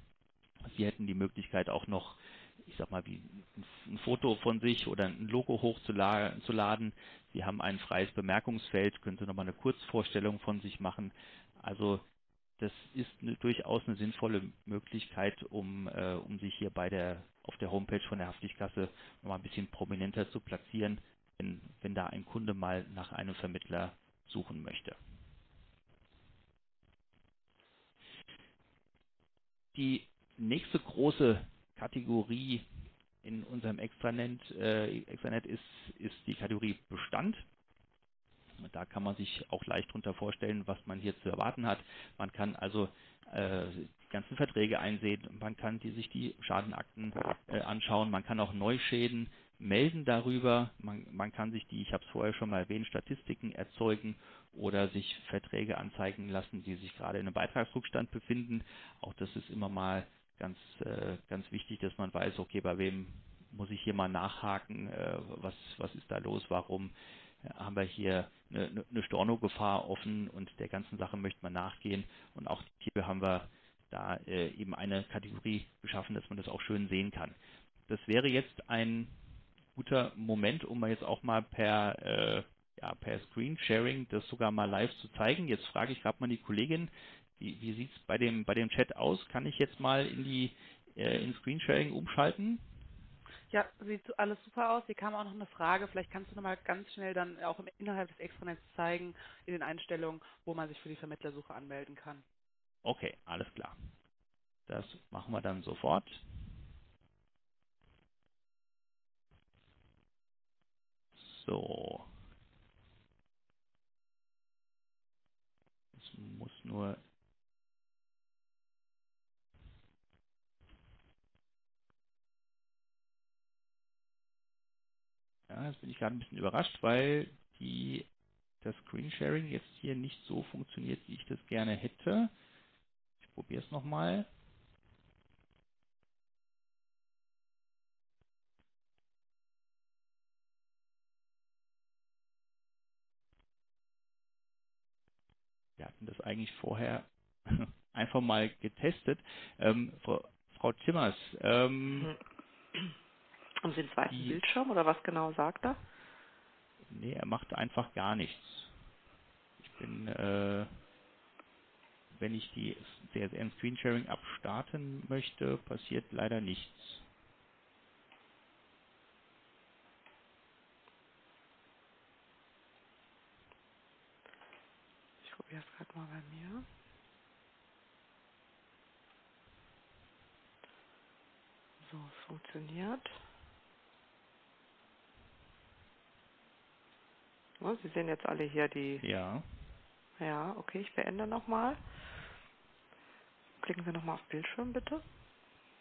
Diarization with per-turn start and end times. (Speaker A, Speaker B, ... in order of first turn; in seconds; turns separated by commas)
Speaker A: 0.7-12.0, Speaker A: 12.6-24.9, Speaker A: 29.7-32.6, Speaker A: 33.2-37.4, Speaker A: 38.6-77.3, Speaker A: 77.9-79.1, Speaker A: 79.7-92.6, Speaker B: 93.5-102.2, Speaker A: 102.8-103.8, Speaker A: 104.7-106.2, Speaker A: 111.2-112.1, Speaker A: 115.9-117.0, Speaker A: 125.5-128.1, Speaker A: 128.6-132.3, Speaker A: 133.2-134.3, Speaker A: 145.8-152.1, Speaker C: 153.6-155.8, Speaker A: 154.1-154.4, Speaker A: 156.9-158.7, Speaker A: 159.6-160.7, Speaker A: 162.2-167.0, Speaker C: 175.2-176.7, Speaker C: 181.8-183.1, Speaker C: 187.6-189.0, Speaker A: 189.0-189.5, Speaker C: 190.2-191.8, Speaker C: 193.6-195.0